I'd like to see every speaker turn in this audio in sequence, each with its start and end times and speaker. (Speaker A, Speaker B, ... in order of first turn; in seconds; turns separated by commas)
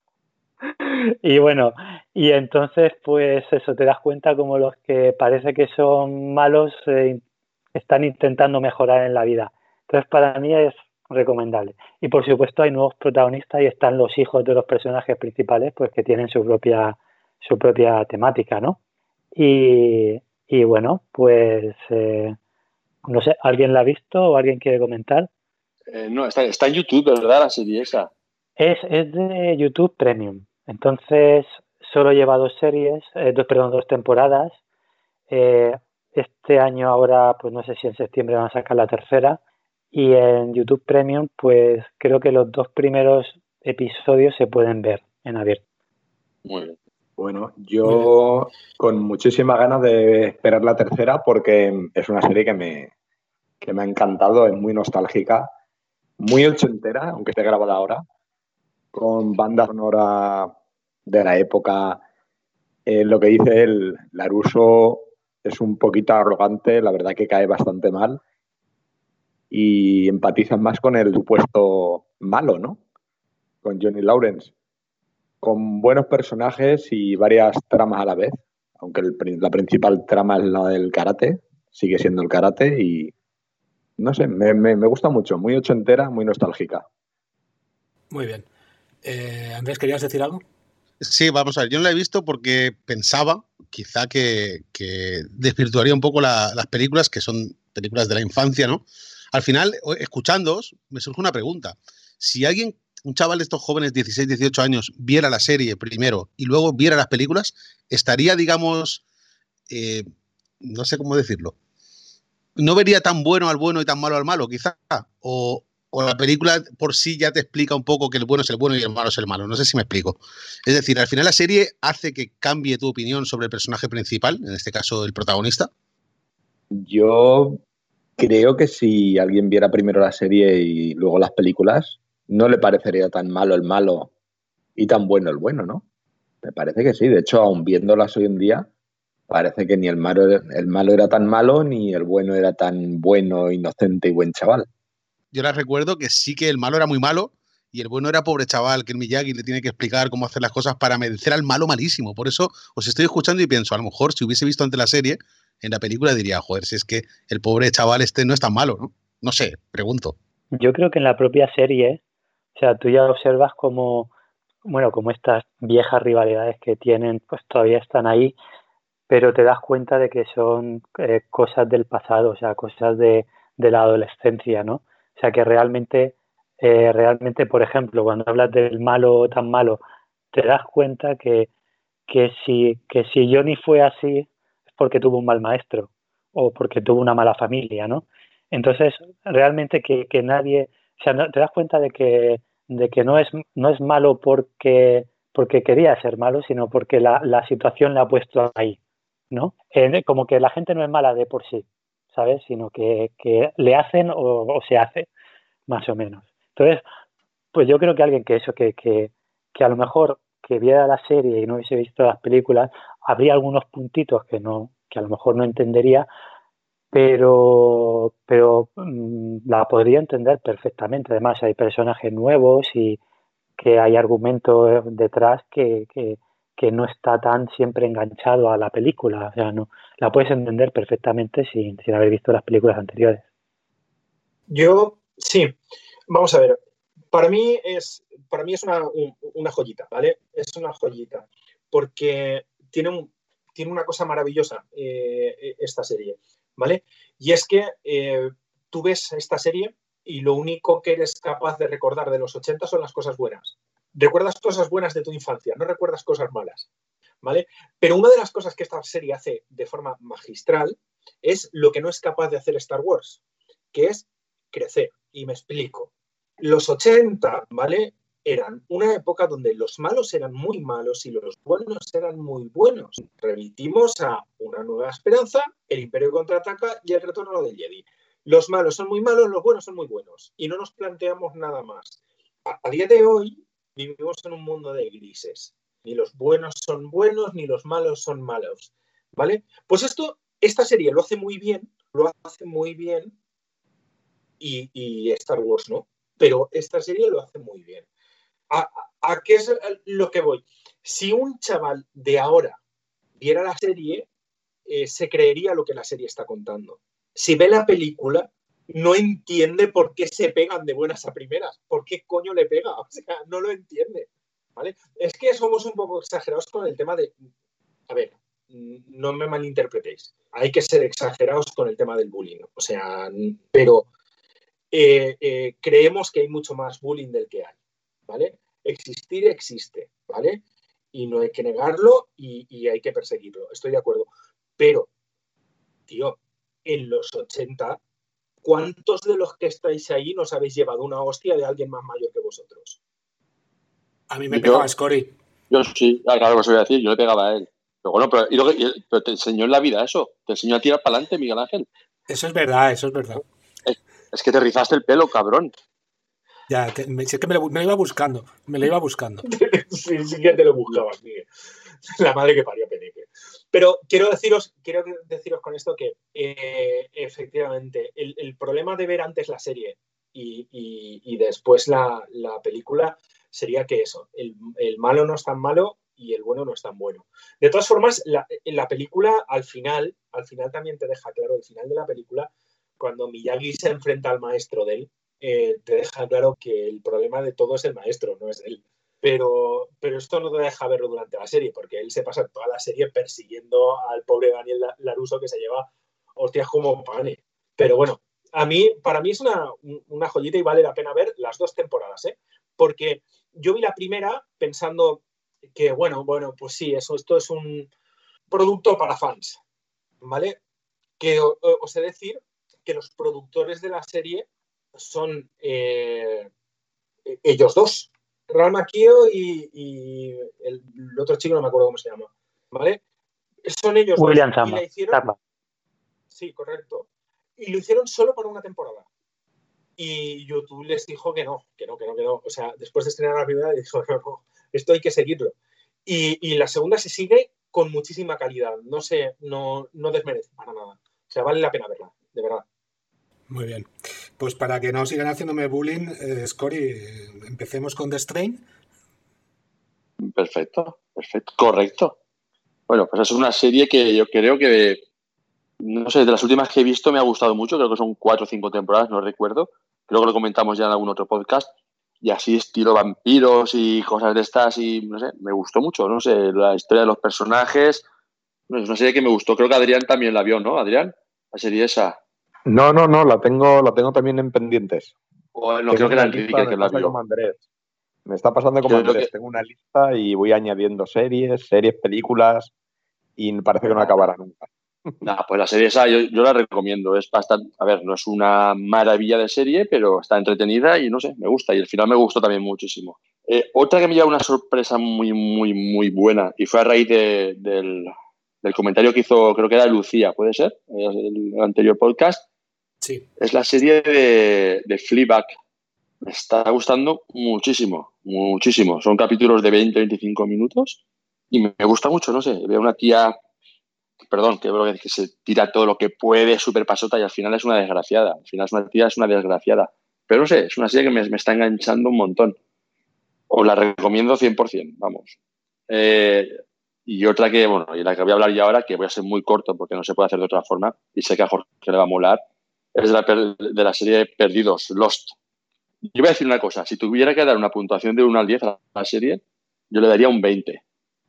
Speaker A: 0.7-7.2, Speaker A: 7.8-18.8, Speaker A: 19.4-22.4, Speaker A: 23.1-25.3, Speaker B: 25.9-28.1, Speaker A: 28.6-34.6, Speaker A: 35.3-39.4, Speaker A: 39.9-45.6, Speaker B: 46.5-46.8, Speaker C: 47.2-52.9, Speaker C: 53.6-55.5, Speaker C: 56.2-58.0, Speaker C: 58.9-60.5, Speaker C: 61.1-62.0, Speaker C: 62.9-68.2, Speaker C: 69.5-72.8, Speaker C: 73.6-74.5, Speaker C: 75.4-83.1, Speaker C: 84.0-86.9, Speaker D: 88.1-88.5, Speaker D: 89.0-90.4, Speaker E: 91.0-109.0, Speaker E: 109.7-110.1, Speaker E: 110.6-111.5, Speaker E: 112.6-125.7, Speaker C: 126.7-127.6, Speaker C: 128.2-134.1, Speaker C: 134.8-135.8, Speaker C: 136.4-138.7, Speaker C: 139.3-144.7, Speaker E: 145.3-160.2, Speaker A: 160.5-162.0, Speaker A: 162.6-164.1, Speaker A: 164.7-168.3, Speaker A: 169.1-179.8, Speaker A: 180.3-181.5, Speaker A: 182.1-198.8, Speaker A: 199.3-205.1, Speaker A: 205.7-206.8, Speaker A: 207.5-216.1, Speaker A: 216.9-223.0, Speaker A: 223.6-233.2, Speaker F: 234.5-235.6, Speaker F: 236.1-236.6, Speaker F: 237.1-256.7, Speaker F: 257.2-263.2, Speaker F: 263.7-293.1, Speaker F: 294.4-297.9, Speaker F: 298.5-302.6, Speaker F: 303.2-304.1, Speaker F: 304.7-317.2, Speaker F: 317.9-323.9, Speaker F: 324.7-327.6, Speaker F: 328.1-330.4, Speaker F: 330.9-334.9, Speaker F: 335.9-337.8, Speaker F: 338.4-342.8, Speaker D: 344.1-345.1, Speaker B: 344.3-344.6, Speaker B: 345.5-351.7, Speaker D: 352.1-353.2, Speaker B: 353.7-355.5, Speaker D: 356.5-359.3, Speaker F: 359.3-361.3, Speaker F: 361.9-405.0, Speaker F: 405.5-407.7, Speaker F: 408.3-409.4, Speaker F: 410.0-410.4, Speaker F: 411.0-416.3, Speaker F: 417.1-422.8, Speaker F: 423.4-425.0, Speaker A: 424.0-425.2, Speaker F: 426.1-428.9, Speaker F: 429.8-435.4, Speaker F: 435.9-442.4, Speaker D: 443.3-448.4, Speaker B: 450.0-451.9, Speaker B: 452.7-454.8, Speaker B: 455.6-461.5, Speaker B: 462.0-467.8, Speaker B: 468.5-472.0, Speaker C: 472.5-474.9, Speaker B: 475.4-476.9, Speaker C: 475.7-477.4, Speaker C: 478.1-482.5, Speaker B: 478.7-479.1, Speaker C: 483.2-484.5, Speaker B: 483.6-484.1, Speaker B: 485.0-502.2, Speaker B: 503.2-505.3, Speaker B: 506.0-510.8, Speaker B: 511.3-513.1, Speaker B: 514.0-522.4, Speaker B: 523.3-525.1, Speaker B: 525.7-526.3, Speaker B: 526.9-532.2, Speaker B: 532.8-535.1, Speaker B: 535.9-540.6